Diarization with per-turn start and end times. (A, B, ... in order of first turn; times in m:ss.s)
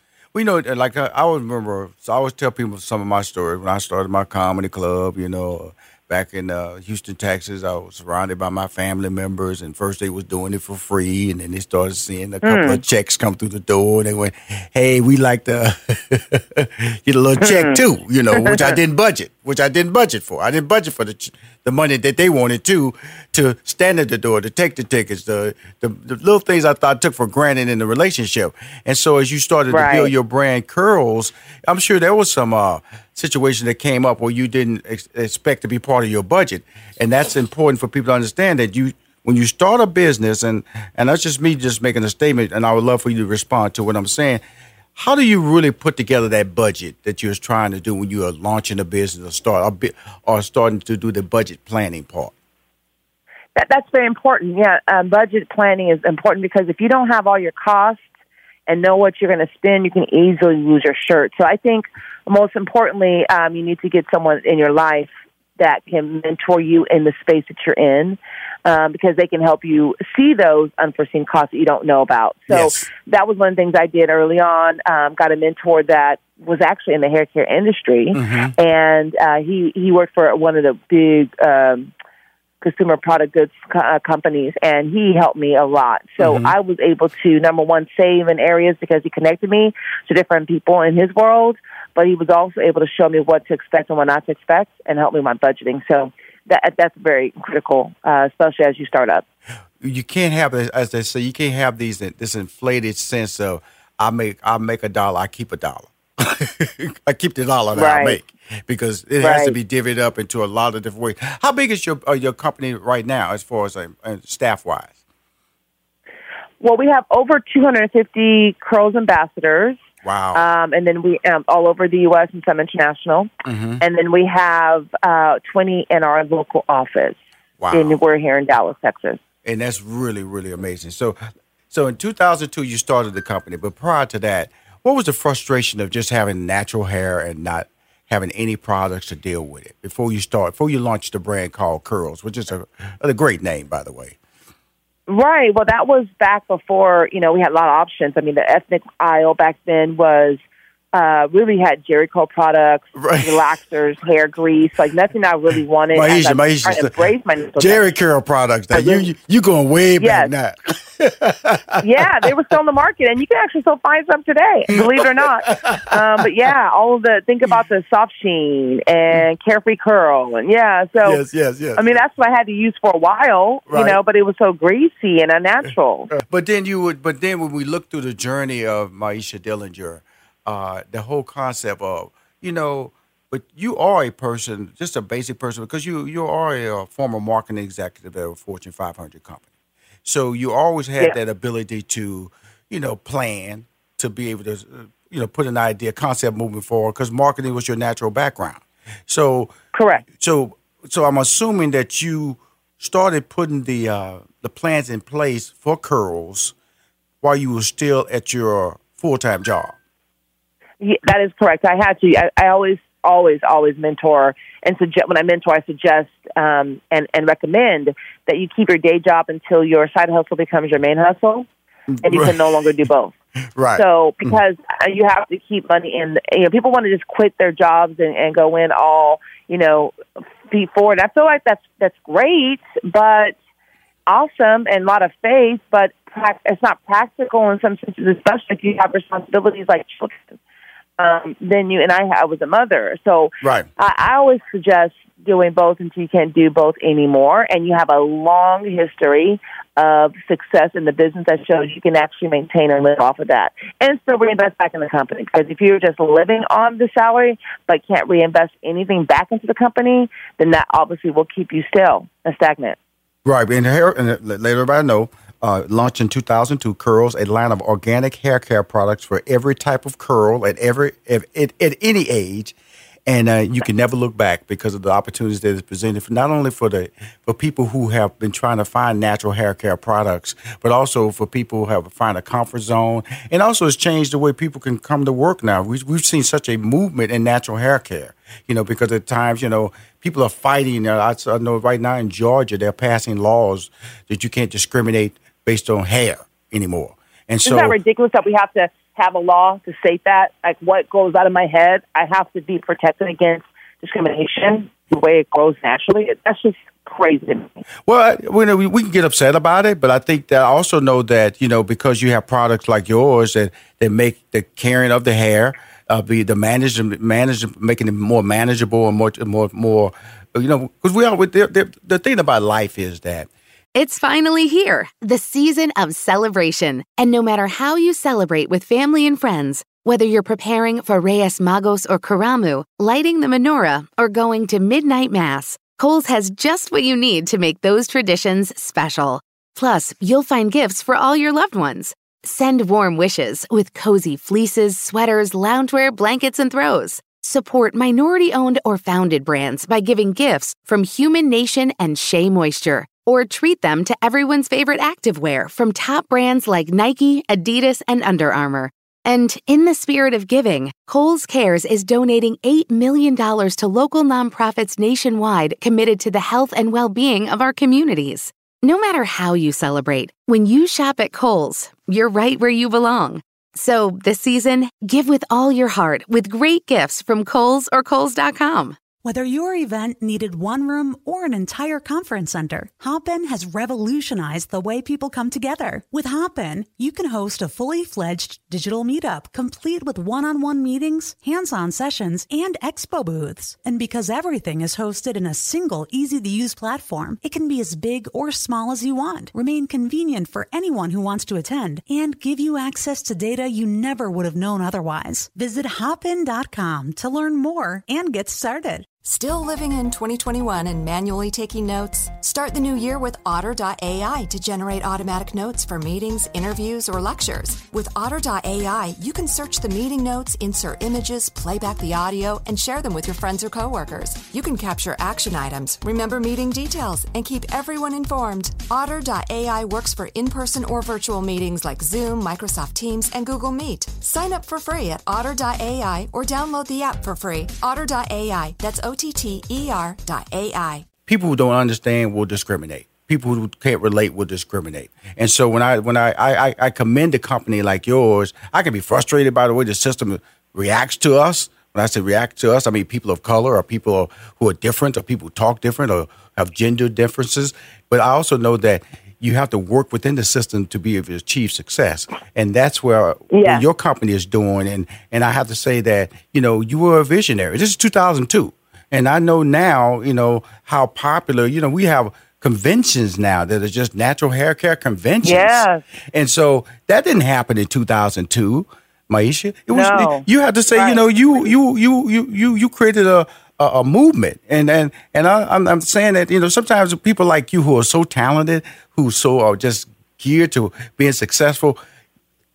0:00.3-0:44.4 A
0:12.4-0:12.8 B
0:17.4-0:17.8 B
0:18.3-0:18.8 B
0:29.7-0:30.1 B
0:45.0-0:52.3 A
0:53.5-0:58.0 B
0:58.7-1:21.9 B
1:12.5-1:12.9 A
1:18.1-1:18.5 A
1:22.6-1:39.2 B
1:26.2-1:26.6 A
1:39.8-1:54.9 A
1:47.7-1:48.2 B
1:49.2-1:49.6 B
1:56.6-1:59.8 B
2:00.0-2:00.5 A
2:00.3-2:07.2 B
2:03.4-2:03.8 A
2:07.6-2:08.0 A
2:07.7-2:09.2 B
2:09.4-2:11.2 A
2:11.7-2:24.2 A
2:25.1-2:30.4 B
2:30.9-2:37.8 B
2:32.9-2:33.5 A
2:35.9-2:36.9 A
2:37.5-2:42.3 A
2:38.7-2:39.1 B
2:40.0-2:40.3 B
2:41.8-2:51.2 B
2:44.7-2:45.8 A
2:51.0-2:52.0 A
2:51.7-2:56.1 B
2:53.7-2:54.0 A
2:56.1-3:09.4 A
3:10.0-3:19.5 A
3:19.7-3:20.0 B
3:20.2-3:26.5 A
3:27.2-3:29.7 A
3:30.8-3:41.4 B
3:41.9-3:42.8 A
3:42.0-3:43.1 B
3:43.6-3:44.4 A
3:43.7-3:53.3 B
3:54.1-4:00.2 B
4:01.0-4:22.8 B
4:03.4-4:03.7 A
4:23.2-4:32.6 A
4:33.1-4:57.8 A
4:57.4-5:07.6 B
5:07.8-5:23.3 A
5:23.7-6:18.8 C
6:19.0-6:48.9 D
6:49.0-7:20.8 E
7:21.0-8:11.8 A
7:43.3-7:43.6 B
7:55.2-7:55.8 B
7:59.7-8:01.5 B